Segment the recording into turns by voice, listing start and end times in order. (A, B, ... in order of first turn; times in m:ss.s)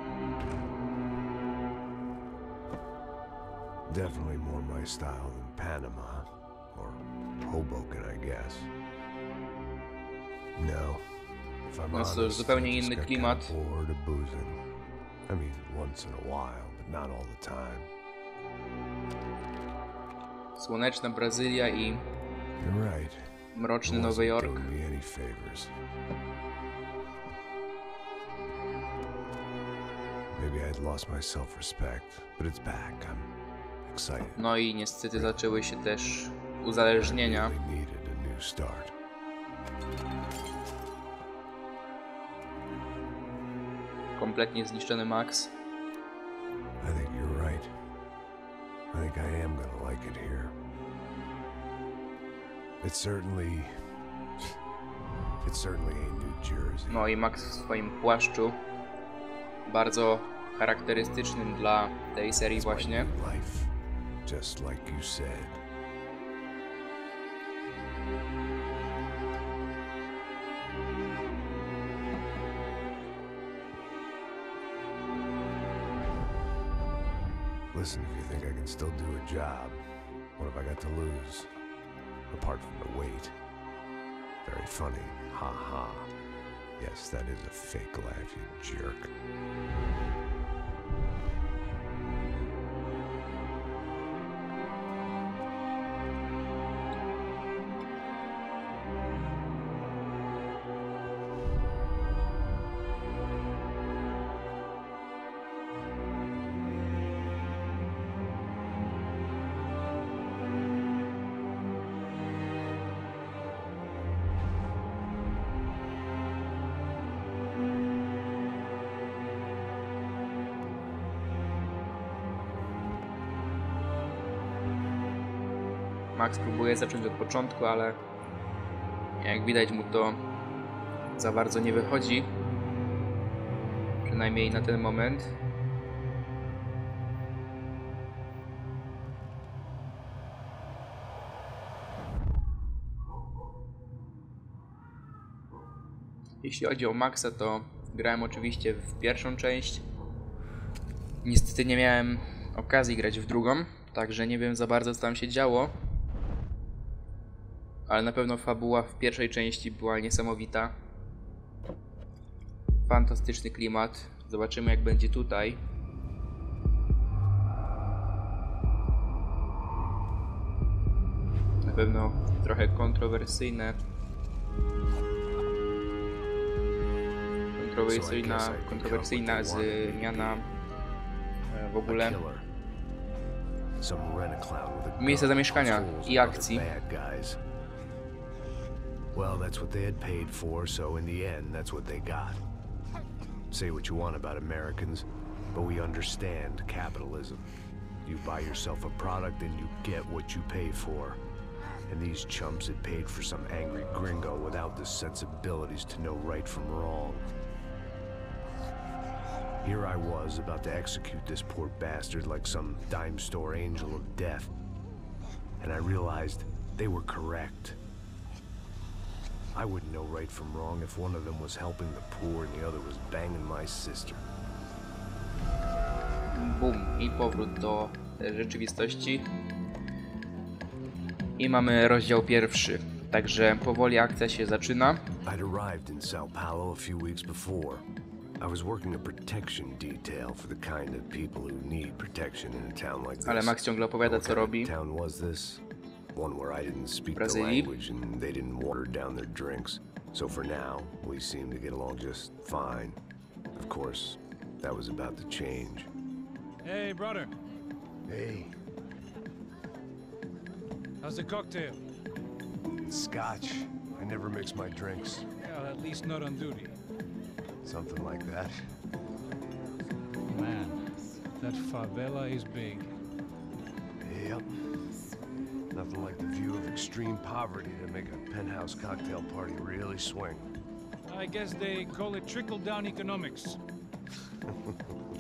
0:03.9-0:08.7 A
0:10.6-0:11.1 A
0:11.7-0:14.6 A
0:11.9-0:13.5 B
0:15.3-0:17.9 A
0:20.6-0:22.0 B
0:22.6-0:23.3 A
0:23.5-0:24.7 B
0:23.8-0:25.7 A
0:30.3-0:33.3 A
0:33.8-0:34.4 A
0:34.4-0:37.5 B
0:37.0-0:38.9 A
0:44.2-0:45.5 B
0:46.8-0:47.7 A
0:48.9-0:50.5 A
0:52.8-0:53.8 A
0:55.4-0:57.1 A
0:56.9-0:58.6 B
0:59.6-1:03.1 B
1:02.5-1:03.7 A
1:04.2-1:05.6 A
1:17.7-1:19.8 A
1:20.4-1:21.5 A
1:22.3-1:23.4 A
1:24.4-1:26.1 A
1:26.8-1:29.1 A
2:06.1-2:08.0 B
2:09.2-2:10.2 B
2:11.2-2:12.3 B
2:14.0-2:15.3 B
2:26.4-2:29.8 B
2:31.2-2:35.7 B
2:37.9-2:40.7 B
2:42.9-2:45.6 B
2:51.6-2:53.8 B
2:57.6-3:00.5 B
2:57.9-3:00.4 A
3:01.5-3:02.2 B
3:01.8-3:02.5 A
3:03.8-3:07.4 A
3:05.0-3:06.7 B
3:09.1-3:12.4 A
3:13.5-3:17.5 A
3:18.0-3:21.2 A
3:21.9-3:27.3 A
3:29.6-3:34.5 A
3:35.6-3:37.8 A
3:39.5-3:44.2 A
3:46.3-3:49.3 B
3:51.4-3:55.1 B
3:55.2-3:57.9 A
3:58.4-4:05.6 A
4:03.2-4:04.7 B
4:06.1-4:13.0 A
4:07.2-4:07.7 B
4:13.6-4:15.9 A
4:16.6-4:17.3 C
4:18.0-4:18.6 A
4:21.0-4:21.8 C
4:22.8-4:25.3 A
4:25.4-4:26.8 C
4:27.6-4:28.7 A
4:30.3-4:32.9 C
4:34.0-4:34.5 A
4:35.7-4:40.5 A
4:41.1-4:43.6 C
4:44.4-4:45.0 A